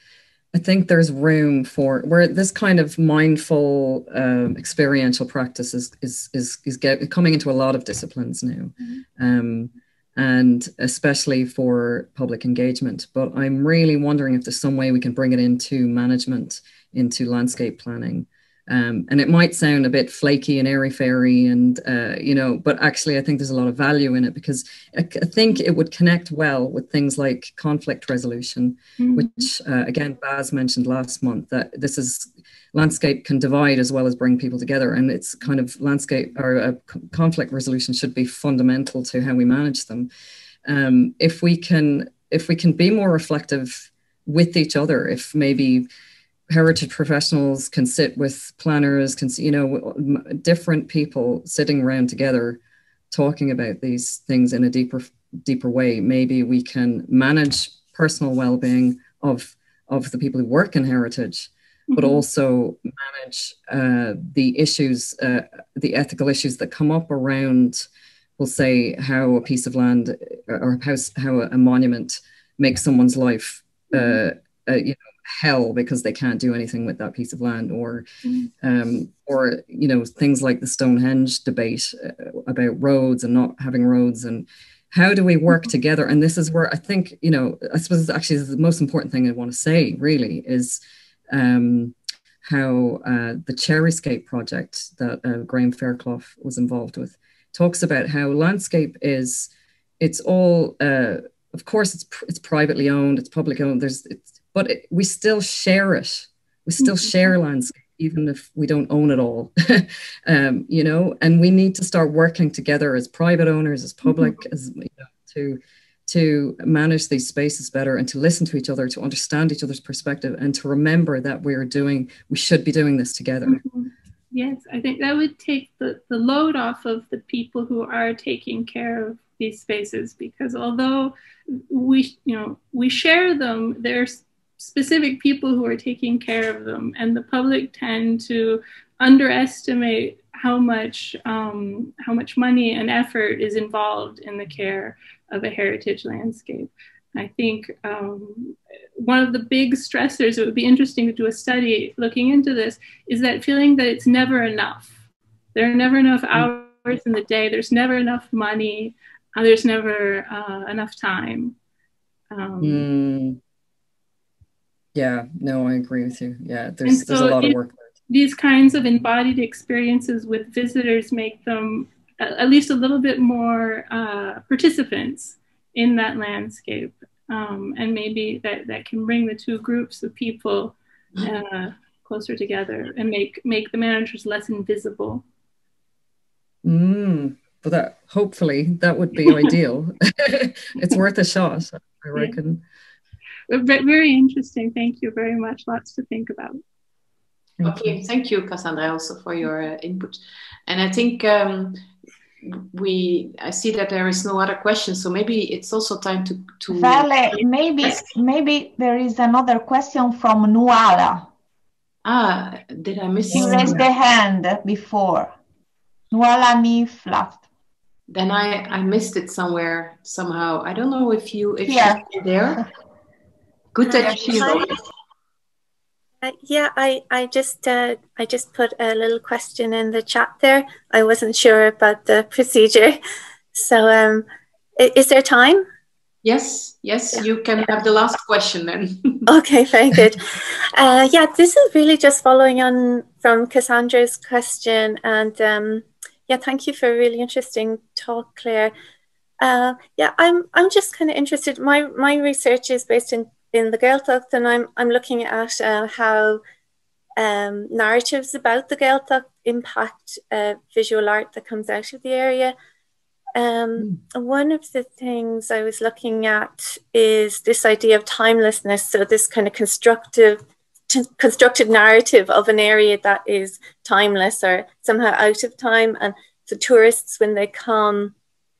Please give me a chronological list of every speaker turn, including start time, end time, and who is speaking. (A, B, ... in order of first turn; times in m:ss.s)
0:00.5-0:40.1 A
0:29.0-0:29.5 B
0:40.7-0:45.9 A
0:46.5-0:52.6 A
0:53.1-1:07.9 A
1:01.9-1:02.2 B
1:08.4-1:18.1 A
1:13.9-1:14.2 B
1:18.2-1:18.5 B
1:18.6-1:30.8 A
1:31.3-2:03.6 A
1:46.8-1:47.3 B
1:54.0-1:54.4 B
2:03.5-2:11.2 B
2:11.7-2:34.9 B
2:35.5-2:41.6 B
2:42.3-2:42.8 B
2:42.6-2:43.4 A
2:45.0-2:47.8 A
2:46.8-2:47.6 B
2:48.1-3:05.2 B
3:06.6-3:12.6 A
3:09.2-3:09.5 B
3:13.5-3:16.6 B
3:17.6-3:18.0 A
3:17.6-3:21.8 C
3:22.4-3:28.1 C
3:26.7-3:31.3 D
3:32.0-3:33.9 C
3:33.3-3:35.4 D
3:36.1-3:37.4 D
3:38.1-3:42.6 C
3:41.6-3:42.0 D
3:43.8-3:44.8 C
3:43.9-3:44.7 D
3:44.0-3:44.7 E
3:46.2-3:53.0 E
3:53.5-3:55.6 E
3:56.2-3:59.3 C
3:59.3-4:08.7 E
4:09.4-4:16.4 E
4:17.2-4:22.6 E
4:23.4-4:38.1 E